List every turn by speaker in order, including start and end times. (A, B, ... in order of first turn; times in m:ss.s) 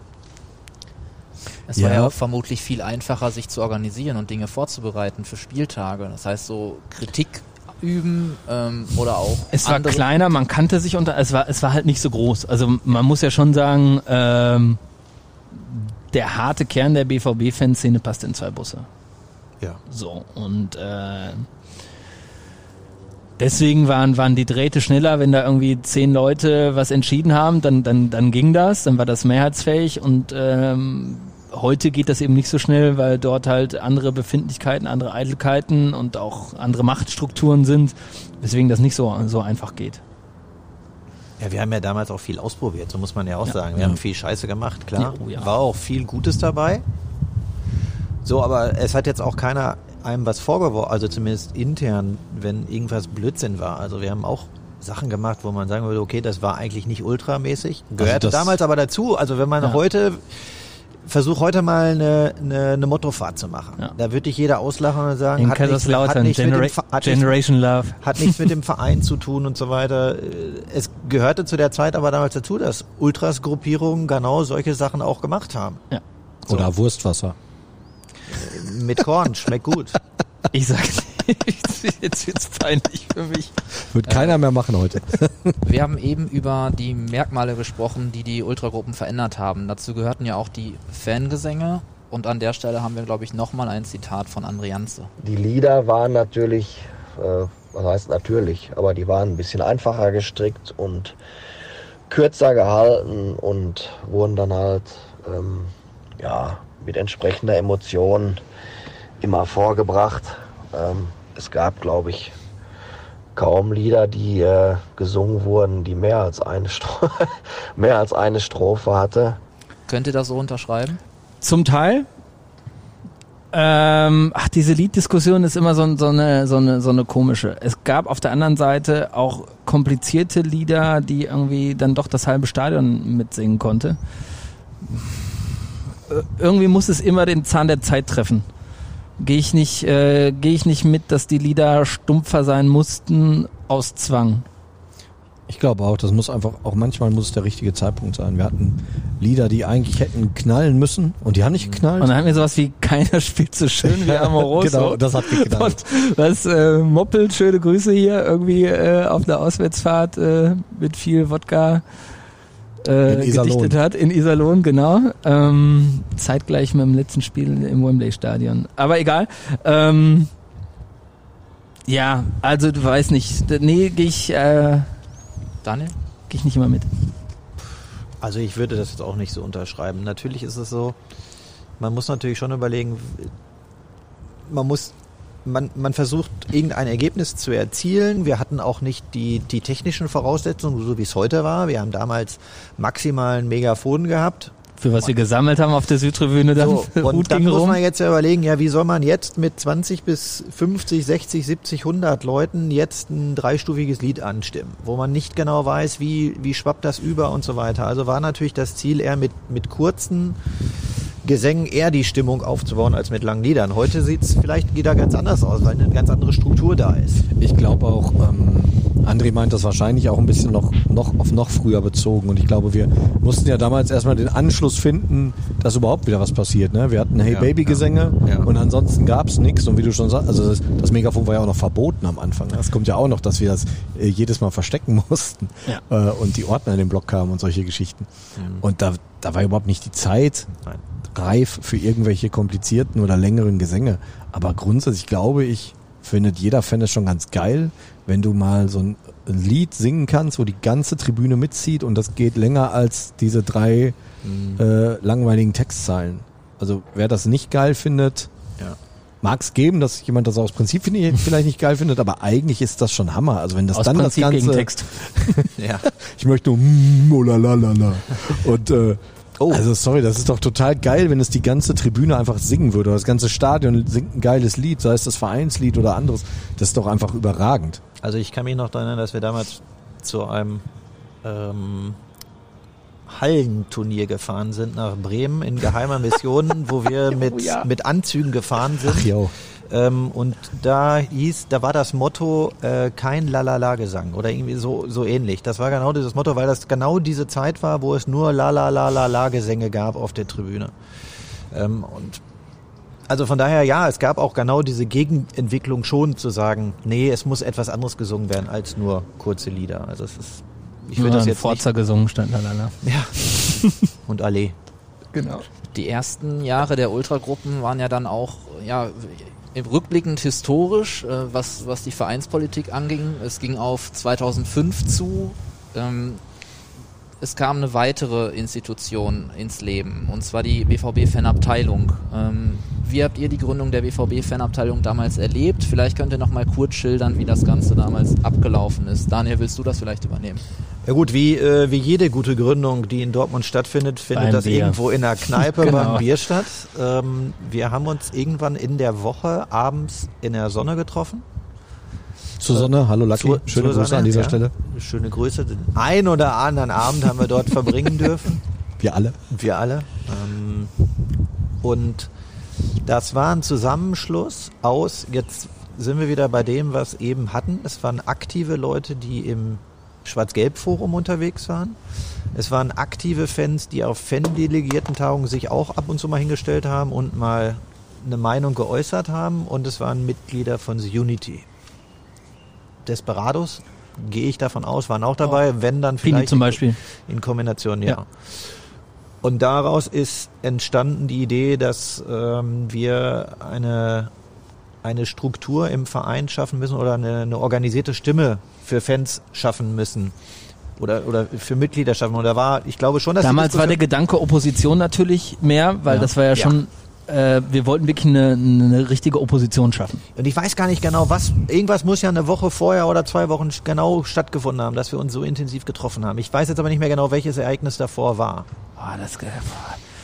0:01.7-0:10.0 A
0:01.8-0:02.1 B
0:09.5-0:14.8 C
0:15.5-0:18.9 C
0:19.9-0:21.5 C
0:23.4-0:40.0 C
0:41.4-0:46.8 D
0:45.0-0:45.5 C
0:48.2-1:07.4 D
0:58.0-0:58.6 B
1:05.4-1:08.5 C
1:08.0-1:15.8 D
1:16.4-1:17.4 B
1:18.3-1:20.0 D
1:20.5-1:23.5 C
1:23.8-1:25.6 B
1:24.1-1:24.3 A
1:25.6-1:35.1 A
1:35.2-1:41.2 E
1:42.1-1:48.4 E
1:49.2-1:52.4 E
1:53.3-1:59.4 E
1:59.9-2:01.0 A
2:01.4-2:02.1 C
2:03.5-2:14.0 C
2:14.8-2:15.4 C
2:16.1-2:18.4 C
2:19.2-2:24.4 C
2:25.5-2:32.1 B
2:32.0-2:41.8 C
2:33.8-2:35.8 B
2:42.8-2:50.3 C
2:43.1-2:43.8 B
2:51.9-2:54.9 C
2:55.6-2:55.9 A
2:56.3-2:56.9 C
2:58.2-3:01.0 D
3:01.8-3:03.3 D
3:04.5-3:15.1 D
3:14.8-3:17.8 C
3:16.5-3:30.4 D
3:31.2-3:37.3 D
3:37.4-4:00.5 B
3:47.3-3:48.5 D
3:58.4-3:58.6 D
4:01.1-4:14.0 B
4:14.2-4:14.6 D
4:14.6-4:18.3 B
4:19.2-4:37.8 B
4:23.7-4:25.5 C
4:25.6-4:25.9 D
4:38.0-4:40.6 D
4:41.2-4:42.0 D
4:43.1-4:49.1 D
4:47.1-4:47.7 C
4:48.8-4:49.3 B
4:49.7-5:00.7 D
5:01.5-5:02.2 D
5:03.1-5:11.6 D
5:11.0-5:13.6 C
5:12.8-5:14.6 D
5:15.1-5:15.4 C
5:15.7-5:26.2 A
5:27.2-5:40.4 A
5:40.8-5:51.2 D
5:44.1-5:46.1 C
5:52.4-5:54.5 B
5:52.5-5:58.4 D
5:58.8-5:59.3 B
5:59.3-6:00.7 D
6:01.6-6:02.1 D
6:02.8-6:11.8 D
6:12.3-6:21.4 D
6:22.8-6:28.4 D
6:26.0-6:26.8 C
6:29.2-6:34.1 D
6:34.8-6:40.1 D
6:40.8-6:43.8 D
6:43.2-6:50.0 C
6:45.9-6:46.6 D
6:50.2-6:58.5 D
6:58.8-6:59.8 C